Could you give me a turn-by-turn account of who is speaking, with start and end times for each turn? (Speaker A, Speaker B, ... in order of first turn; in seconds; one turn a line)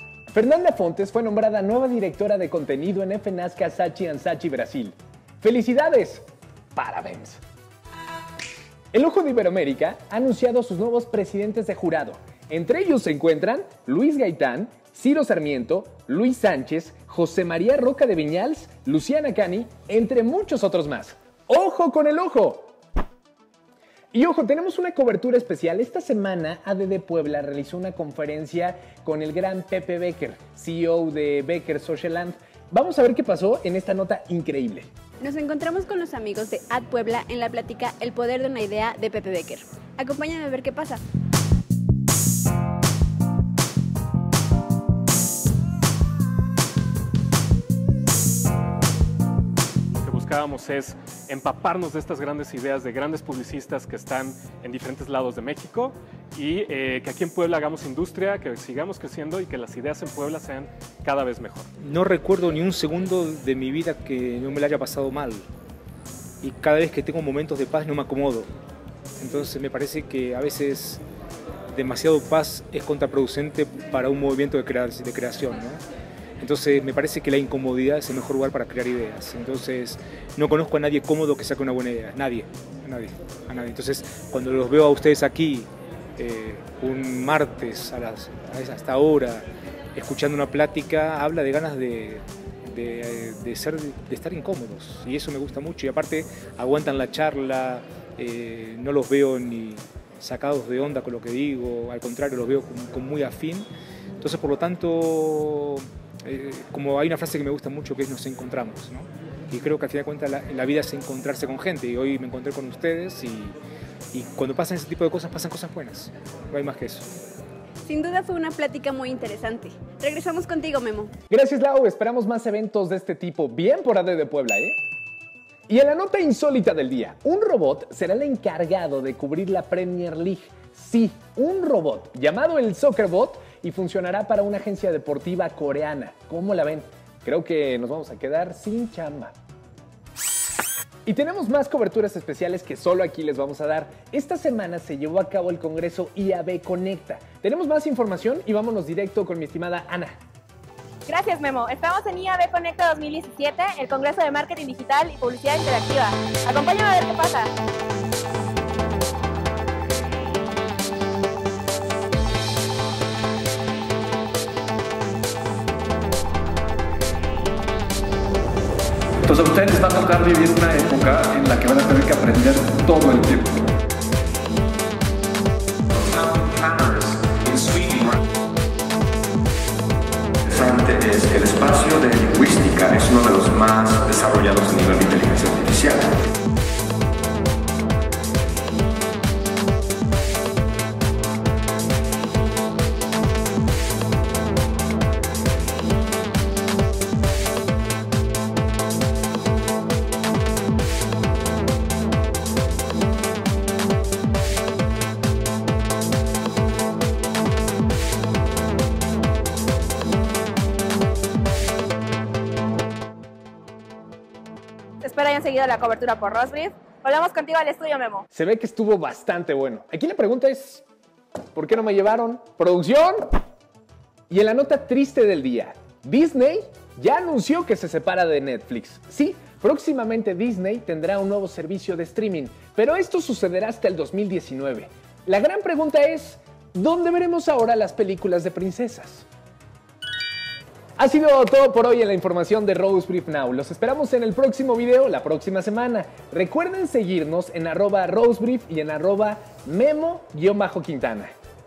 Speaker A: 0.3-7.4
Speaker A: 8.9-22.7
Speaker A: 24.1-34.9
Speaker B: 35.2-41.0
Speaker C: 50.0-61.7
Speaker D: 61.8-65.4
Speaker D: 66.4-68.5
Speaker D: 69.2-71.0
Speaker D: 71.7-75.8
Speaker D: 76.4-103.7
Speaker D: 104.2-113.5
Speaker D: 114.1-117.1
Speaker B: 117.8-121.1
Speaker A: 121.3-124.8
Speaker A: 125.7-139.3
Speaker A: 141.1-150.2
Speaker E: 151.1-157.5
Speaker F: 169.2-173.6
Speaker G: 176.1-178.1
Speaker G: 180.5-186.1
Speaker E: 215.0-218.2
Speaker A: 218.3-220.8
Speaker A: 221.5-223.3
Speaker A: 224.3-239.3
Speaker A: 241.0-251.3